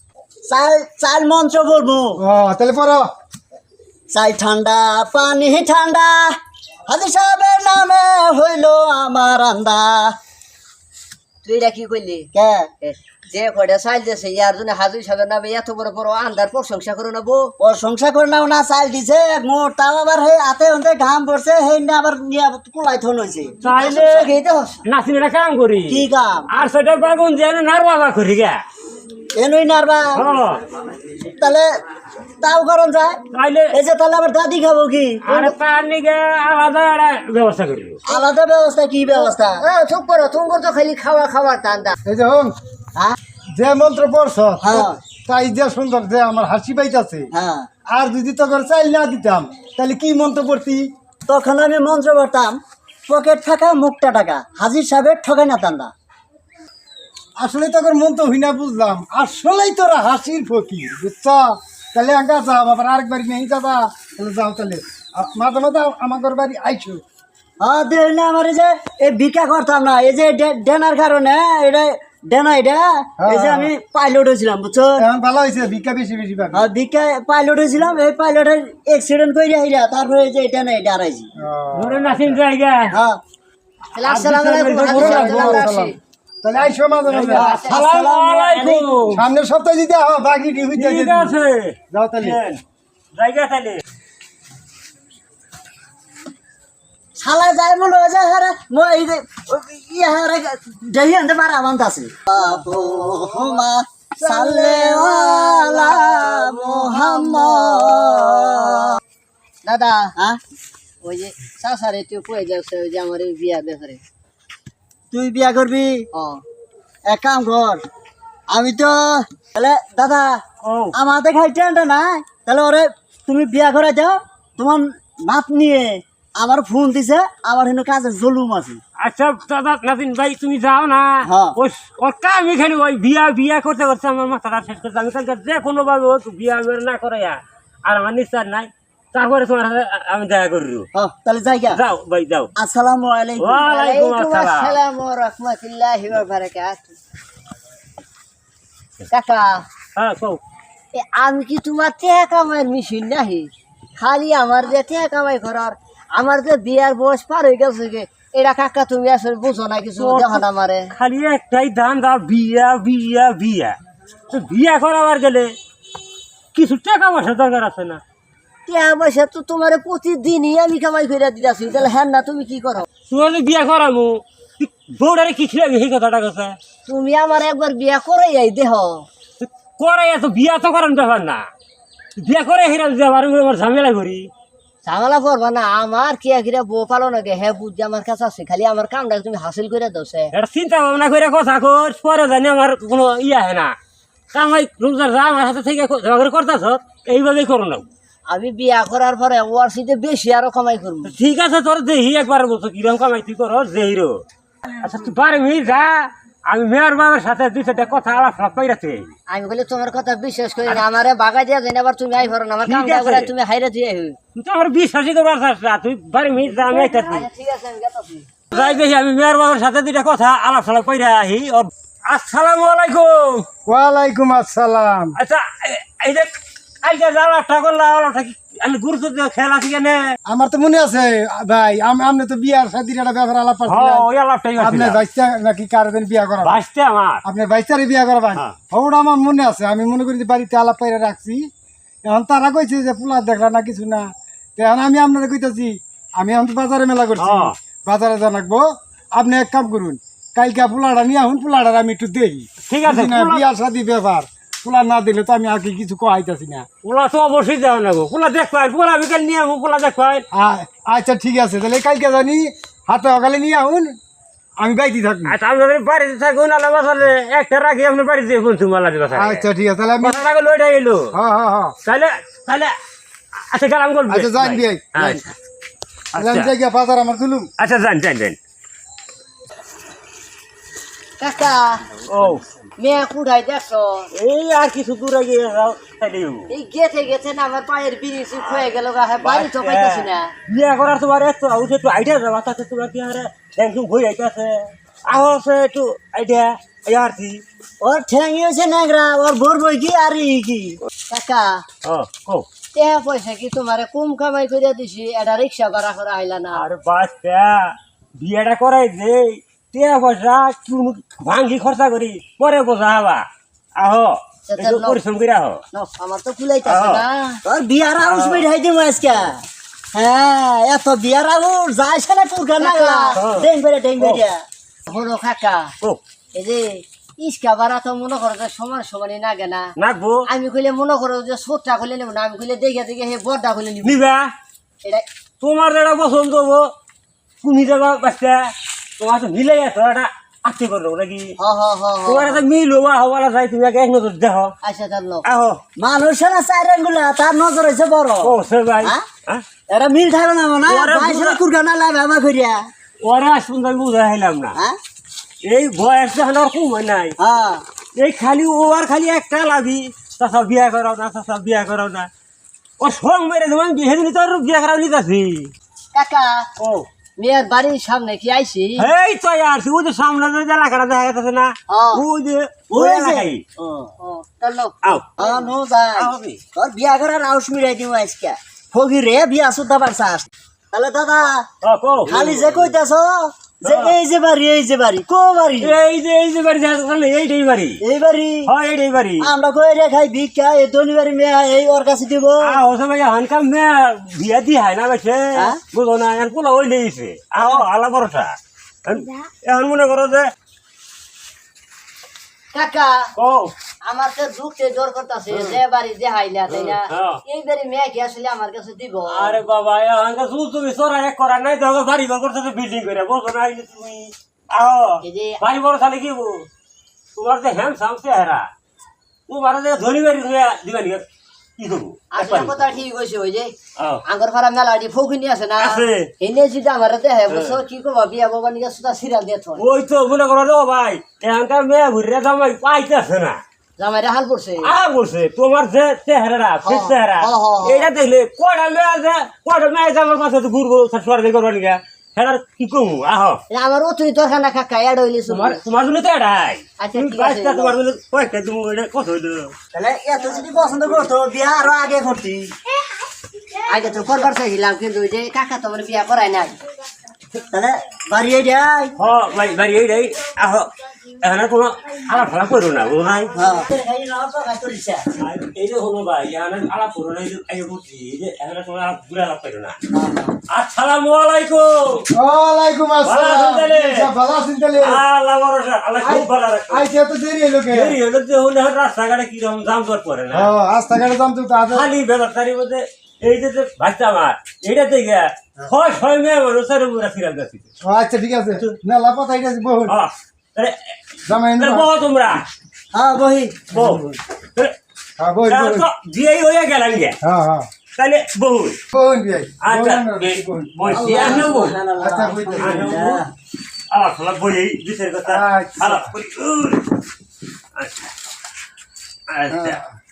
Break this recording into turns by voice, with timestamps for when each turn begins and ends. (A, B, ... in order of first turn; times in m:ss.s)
0:00.4-0:02.2 A
0:02.2-0:03.1 B
0:04.1-0:10.2 A
0:11.4-0:12.3 C
0:12.3-0:12.7 A
0:12.8-0:17.5 C
0:17.6-0:23.5 A
0:23.6-0:24.3 D
0:23.6-0:24.8 C
0:24.8-0:28.6 D
0:25.9-0:26.5 A
0:29.3-0:30.2 A
0:30.1-0:30.6 D
0:31.2-0:31.7 A
0:32.4-0:33.2 A
0:33.3-0:33.8 D
0:33.7-0:35.2 A
0:35.2-0:38.0 D
0:35.3-0:35.6 C
0:38.1-0:39.6 A
0:39.1-0:42.0 C
0:42.0-0:42.5 B
0:43.6-0:47.3 B
0:44.6-0:45.0 A
0:47.3-0:47.7 A
0:47.9-0:50.9 B
0:51.3-0:55.9 A
0:57.4-1:07.0 B
1:07.6-1:15.0 A
1:13.2-1:13.7 B
1:15.0-1:16.6 B
1:16.5-1:21.3 A
1:21.4-1:22.4 B
1:21.7-1:22.9 D
1:22.9-1:23.2 A
1:23.9-1:26.0 C
1:24.0-1:25.7 D
1:24.8-1:27.6 B
1:27.1-1:29.2 D
1:27.3-1:28.1 C
1:27.8-1:28.8 A
1:29.1-1:31.3 B
1:30.8-1:32.6 D
1:31.9-1:32.4 B
1:33.1-1:33.8 D
1:37.2-1:49.0 A
1:42.3-1:43.6 C
1:44.2-1:48.9 C
1:49.6-1:50.1 C
1:51.0-1:54.0 C
1:55.1-1:56.0 A
1:56.1-1:56.4 C
1:57.1-1:57.8 A
1:58.5-2:08.8 A
2:00.6-2:01.0 D
2:09.0-2:20.9 D
2:11.2-2:11.5 A
2:21.0-2:21.8 A
2:21.7-2:22.5 D
2:22.6-2:23.6 A
2:23.4-2:24.8 D
2:23.6-2:26.9 C
2:29.1-2:29.6 C
2:30.0-2:30.4 D
2:30.9-2:40.9 C
2:40.0-2:43.8 D
2:44.3-2:45.5 D
2:46.5-2:48.0 D
2:48.6-2:52.9 C
2:53.1-2:56.6 D
2:56.8-2:59.0 C
2:59.4-3:01.5 D
3:02.2-3:04.3 D
3:04.8-3:10.3 C
3:10.3-3:13.8 D
3:14.3-3:17.9 D
3:18.3-3:21.1 C
3:21.0-3:24.2 D
3:24.8-3:29.1 D
3:29.3-3:34.2 C
3:32.6-3:33.3 D
3:34.3-3:37.3 D
3:36.5-3:38.6 C
3:38.5-3:43.4 D
3:43.6-3:45.2 B
3:45.2-3:46.3 D
3:46.8-3:50.1 D
3:50.3-3:54.0 B
3:53.7-3:55.0 D
3:54.6-3:56.6 B
3:56.4-3:57.2 D
3:57.2-4:01.5 B
4:02.0-4:16.7 B
4:07.2-4:07.6 D
4:12.7-4:13.4 D
4:16.8-4:20.2 D
4:20.3-4:23.9 B
4:24.6-4:25.3 B
4:25.3-4:29.4 D
4:29.1-4:30.2 B
4:30.0-4:31.1 D
4:31.1-4:31.7 B
4:31.8-4:32.7 D
4:33.5-4:35.3 D
4:34.1-4:35.2 B
4:36.1-4:36.5 D
4:36.1-4:37.5 B
4:37.6-4:38.4 D
4:41.2-4:41.8 C
4:42.0-4:42.4 D
4:42.8-4:44.1 C
4:44.2-4:46.5 D
4:46.5-4:50.3 C
4:49.2-4:57.4 D
4:57.8-5:00.8 A
5:01.1-5:01.6 C
5:01.8-5:02.5 D
5:02.7-5:06.6 C
5:06.5-5:13.3 D
5:13.8-5:15.6 D
5:14.5-5:15.0 C
5:15.7-5:17.4 C
5:16.6-5:17.0 D
5:17.4-5:19.4 A
5:18.0-5:18.5 D
5:19.9-5:24.4 A
5:22.6-5:23.2 C
5:23.2-5:24.2 D
5:24.9-5:25.7 C
5:26.3-5:29.7 C
5:29.8-5:30.2 D
5:30.3-5:34.0 C
5:33.8-5:34.3 D
5:35.4-5:36.7 D
5:37.4-5:41.3 D
5:41.4-5:42.4 C
5:42.0-5:44.5 D
5:44.6-5:45.2 C
5:45.2-5:45.6 D
5:45.8-5:49.0 A
5:48.2-5:49.4 D
5:49.7-5:52.7 A
5:50.6-5:51.4 D
5:53.0-5:54.6 D
5:55.4-5:57.2 D
5:57.2-5:57.6 A
5:58.0-6:02.1 D
6:02.8-6:05.5 D
6:05.9-6:06.5 C
6:06.6-6:06.8 D
6:07.2-6:08.9 C
6:08.8-6:13.4 D
6:11.7-6:12.0 C
6:12.7-6:13.9 A
6:14.0-6:15.3 C
6:14.8-6:15.3 D
6:15.2-6:21.5 A
6:15.9-6:16.4 D
6:21.6-6:22.7 D
6:22.0-6:25.7 A
6:23.6-6:23.9 D
6:25.6-6:27.8 D
6:27.8-6:28.5 A
6:28.4-6:29.3 D
6:29.2-6:32.5 A
6:32.4-6:40.3 D
6:35.3-6:35.6 A
6:42.5-6:43.0 C
6:43.2-6:43.5 D
6:43.8-6:49.4 C
6:45.3-6:45.6 D
6:46.5-6:47.2 D
6:49.1-6:56.5 D
6:55.0-6:55.4 C
6:57.1-6:58.5 D
6:59.3-7:01.0 D
7:01.6-7:02.5 D
7:02.1-7:03.5 C
7:04.0-7:09.6 C
7:05.6-7:06.1 D
7:07.3-7:07.6 D
7:09.6-7:13.4 D
7:13.8-7:14.7 C
7:14.6-7:23.4 D
7:16.6-7:17.9 C
7:23.5-7:25.6 C
7:25.3-7:29.5 D
7:26.8-7:27.7 C
7:29.7-7:32.5 A
7:33.7-7:36.5 C
7:37.3-7:38.9 A
7:39.0-7:43.3 D
7:43.3-7:45.1 A
7:45.2-7:49.8 D
7:49.9-7:50.4 A
7:50.5-7:52.1 D
7:52.1-7:55.0 B
7:53.0-7:54.1 D
7:54.8-7:56.8 D
7:56.0-7:58.0 B
7:57.7-8:00.5 D
8:00.3-8:01.9 B
8:01.7-8:07.7 D
8:07.8-8:10.0 B
8:09.9-8:10.8 D
8:11.2-8:11.9 B
8:11.5-8:12.4 D
8:12.9-8:13.7 A
8:13.7-8:14.0 D
8:13.8-8:14.2 B
8:15.2-8:15.9 B
8:15.4-8:17.2 D
8:17.2-8:17.7 B
8:18.0-8:18.8 D
8:18.9-8:21.4 B
8:19.6-8:21.8 D
8:20.9-8:23.3 A
8:22.0-8:23.0 B
8:22.6-8:23.2 D
8:23.9-8:27.0 D
8:25.2-8:26.1 B
8:27.7-8:28.1 D
8:29.3-8:29.8 D
8:29.5-8:29.9 B